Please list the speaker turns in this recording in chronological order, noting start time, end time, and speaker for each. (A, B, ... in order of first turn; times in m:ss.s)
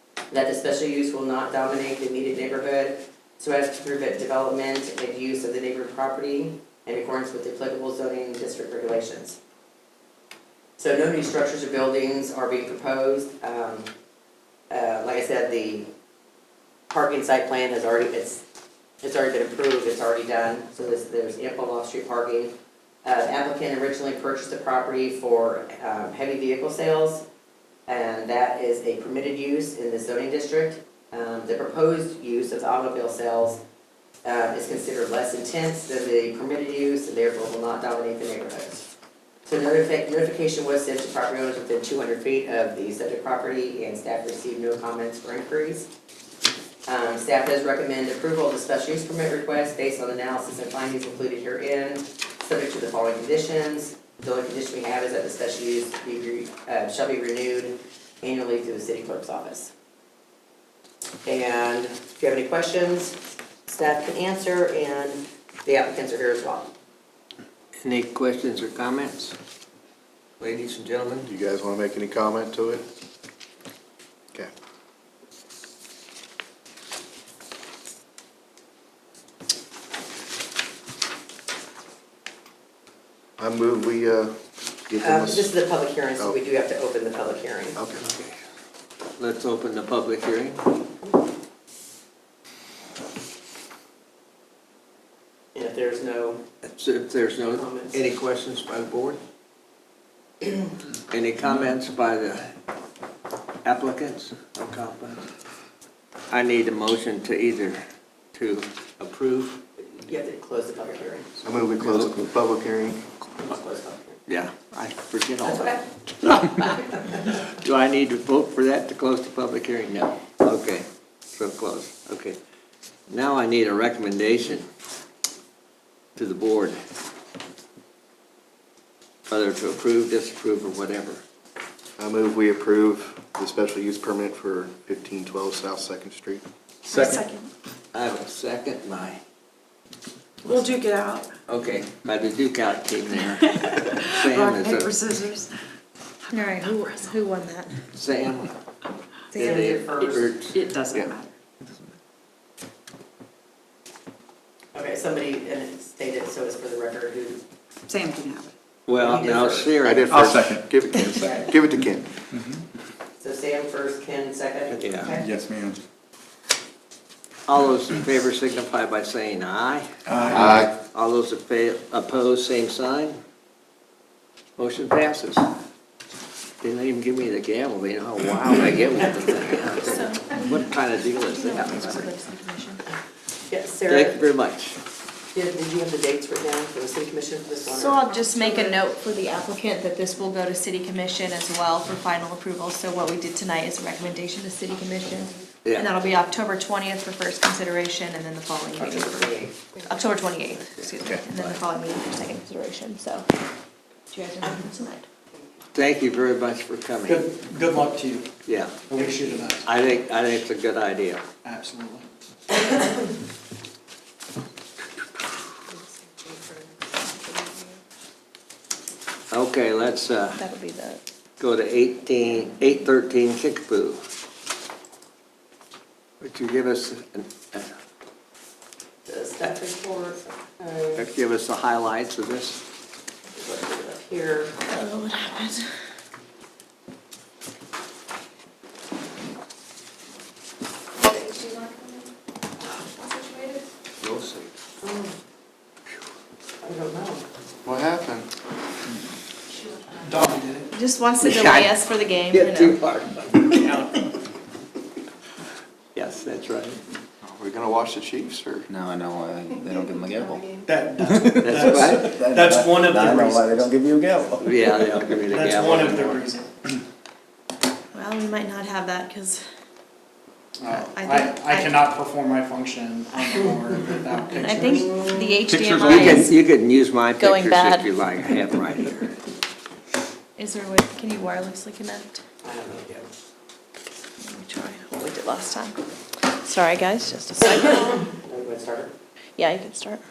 0:00.3-0:09.4 A
0:10.8-0:13.9 A
0:14.7-0:15.9 A
0:16.9-0:18.4 A
0:19.0-0:27.2 A
0:27.9-0:33.6 A
0:34.2-0:38.9 A
0:39.4-0:45.9 A
0:46.8-0:59.7 A
1:01.2-1:06.7 A
1:07.8-1:09.3 B
1:10.4-1:11.3 B
1:11.2-1:12.8 C
1:23.4-1:24.3 C
1:24.9-1:25.5 C
1:25.0-1:27.8 A
1:27.8-1:28.1 C
1:27.9-1:28.3 B
1:29.2-1:30.6 B
1:35.5-1:36.4 A
1:36.8-1:39.2 B
1:37.5-1:38.0 A
1:41.1-1:42.4 B
1:43.6-1:45.3 B
1:46.3-1:47.8 B
1:48.3-1:49.6 B
1:49.9-1:51.3 A
1:51.4-1:53.0 C
1:53.4-1:54.2 A
1:54.3-2:02.4 B
1:55.4-1:55.8 A
1:56.6-1:57.1 A
2:03.1-2:04.7 B
2:06.2-2:06.8 B
2:09.3-2:11.2 B
2:12.0-2:16.4 C
2:16.9-2:17.2 B
2:17.0-2:17.5 D
2:17.9-2:19.2 B
2:20.6-2:21.1 D
2:21.5-2:25.0 B
2:24.3-2:25.5 D
2:26.3-2:27.8 E
2:27.9-2:28.5 B
2:29.3-2:30.2 A
2:29.3-2:29.6 E
2:29.4-2:31.1 B
2:30.5-2:31.2 D
2:34.7-2:37.4 A
2:37.9-2:38.5 D
2:38.9-2:40.1 B
2:39.0-2:39.7 A
2:39.8-2:42.1 C
2:40.1-2:40.7 F
2:43.2-2:45.3 A
2:44.7-2:45.2 B
2:45.2-2:45.8 F
2:47.5-2:53.1 B
2:50.1-2:50.5 F
2:50.3-2:50.7 C
2:54.6-2:55.5 B
2:56.6-3:02.2 B
2:59.8-3:00.6 E
3:01.2-3:02.8 E
3:03.5-3:04.2 A
3:03.9-3:04.8 B
3:05.3-3:08.0 A
3:07.7-3:23.2 E
3:15.6-3:15.9 B
3:18.8-3:19.7 A
3:20.8-3:21.6 B
3:24.1-3:25.0 E
3:25.7-3:27.3 B
3:27.1-3:28.2 F
3:28.4-3:28.9 B
3:28.9-3:29.6 F
3:28.9-3:29.4 A
3:29.6-3:31.2 B
3:31.4-3:32.0 F
3:39.3-3:40.4 B
3:40.4-3:41.0 E
3:41.4-3:44.0 B
3:46.2-3:47.7 B
3:49.0-3:51.0 A
3:51.0-3:52.6 B
3:53.3-3:54.6 A
3:54.6-3:55.7 E
4:01.1-4:02.0 E
4:03.0-4:03.6 E
4:04.0-4:04.5 B
4:04.8-4:05.1 A
4:06.6-4:07.2 A
4:07.6-4:08.3 C
4:10.0-4:10.6 F
4:10.7-4:12.8 E
4:11.2-4:11.8 B
4:12.3-4:14.0 B
4:15.9-4:16.8 B
4:17.2-4:18.7 C
4:18.7-4:20.5 G
4:20.6-4:23.4 F
4:21.0-4:25.0 G
4:21.4-4:22.2 B
4:24.4-4:26.2 B
4:25.3-4:26.4 F
4:27.9-4:29.4 E
4:30.6-4:36.1 F
4:30.6-4:31.8 E
4:33.1-4:33.4 E
4:34.3-4:36.4 E
4:35.9-4:39.2 B
4:37.2-4:37.9 E
4:40.4-4:42.2 E
4:42.4-4:43.1 A
4:44.2-4:48.0 E
4:48.0-4:48.9 A
4:49.4-4:50.0 E